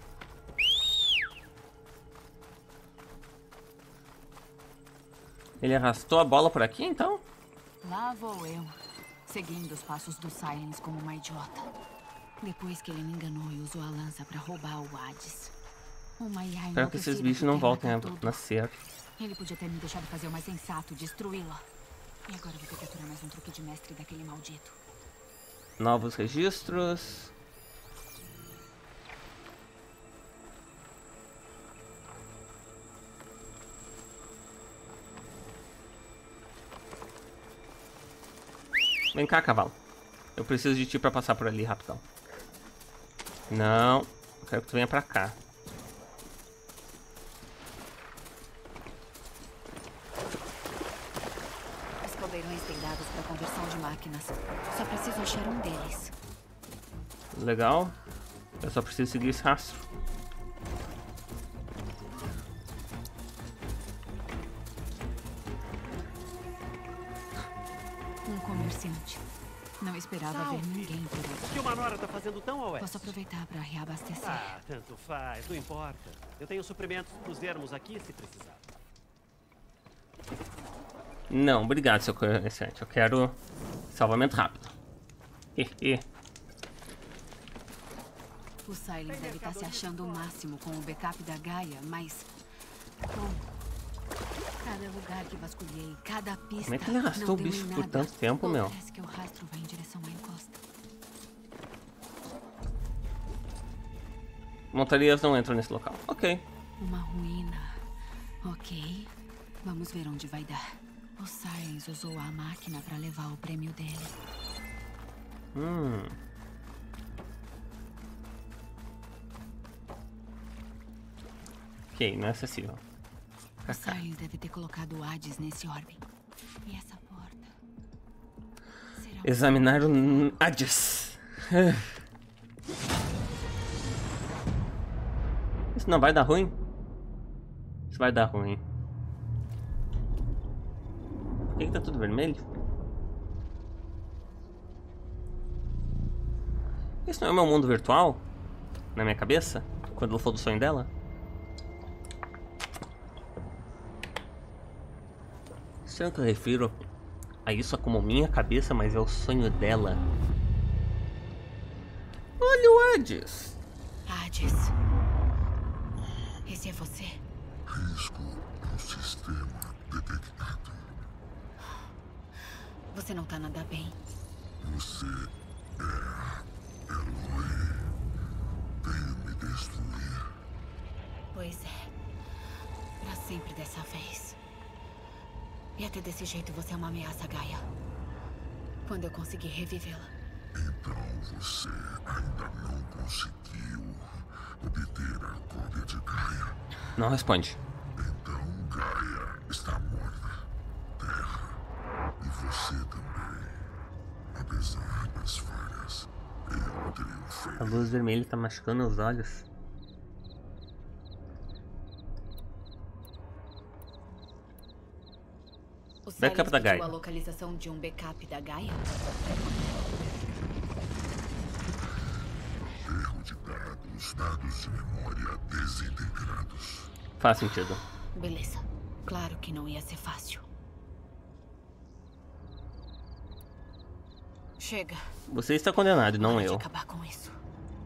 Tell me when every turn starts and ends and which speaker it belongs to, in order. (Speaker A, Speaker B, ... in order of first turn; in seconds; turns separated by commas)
Speaker A: 5.6-7.2, Speaker B: 7.8-11.7, Speaker B: 12.4-15.5, Speaker B: 16.2-18.4, Speaker A: 16.8-18.8, Speaker B: 19.2-21.7, Speaker B: 22.3-24.8, Speaker A: 25.8-27.3, Speaker A: 39.1-39.8, Speaker A: 40.4-42.0, Speaker A: 43.5-45.4, Speaker B: 52.0-56.1, Speaker A: 57.3-58.0, Speaker A: 58.6-59.9, Speaker B: 68.2-69.2, Speaker B: 69.8-71.5, Speaker C: 70.2-73.2, Speaker B: 72.8-74.5, Speaker C: 74.2-78.7, Speaker A: 81.3-83.4, Speaker A: 83.9-84.7, Speaker A: 85.6-86.0, Speaker B: 88.7-92.3, Speaker C: 89.1-90.4, Speaker B: 93.1-93.4, Speaker B: 94.6-100.6, Speaker A: 96.7-98.8, Speaker A: 104.7-106.4, Speaker B: 106.8-107.8, Speaker B: 108.4-114.2, Speaker A: 115.5-116.2, Speaker A: 121.9-122.8, Speaker A: 123.6-124.0, Speaker B: 123.7-126.0, Speaker B: 126.7-127.5, Speaker B: 128.9-130.4, Speaker A: 129.2-131.9, Speaker A: 135.8-136.6, Speaker A: 137.9-138.6, Speaker A: 141.6-142.5, Speaker A: 147.1-148.2, Speaker A: 148.9-150.9, Speaker A: 155.9-156.9, Speaker A: 157.5-160.0, Speaker A: 162.4-163.6, Speaker B: 164.1-164.7, Speaker B: 166.4-167.2, Speaker D: 167.7-171.0, Speaker B: 172.9-174.0, Speaker D: 174.6-177.9, Speaker D: 178.8-180.3, Speaker B: 181.3-181.9, Speaker B: 183.0-184.4, Speaker B: 185.8-187.7, Speaker B: 188.8-190.1, Speaker D: 190.5-196.6, Speaker A: 197.0-197.6, Speaker D: 198.0-200.5, Speaker D: 201.0-201.6, Speaker D: 202.2-203.7, Speaker D: 204.3-207.9, Speaker A: 207.6-209.5, Speaker B: 216.1-218.9, Speaker A: 216.2-216.9, Speaker D: 222.8-226.9, Speaker A: 227.2-227.8, Speaker B: 228.2-230.5, Speaker B: 234.6-235.0, Speaker A: 235.3-236.7, Speaker B: 236.2-237.4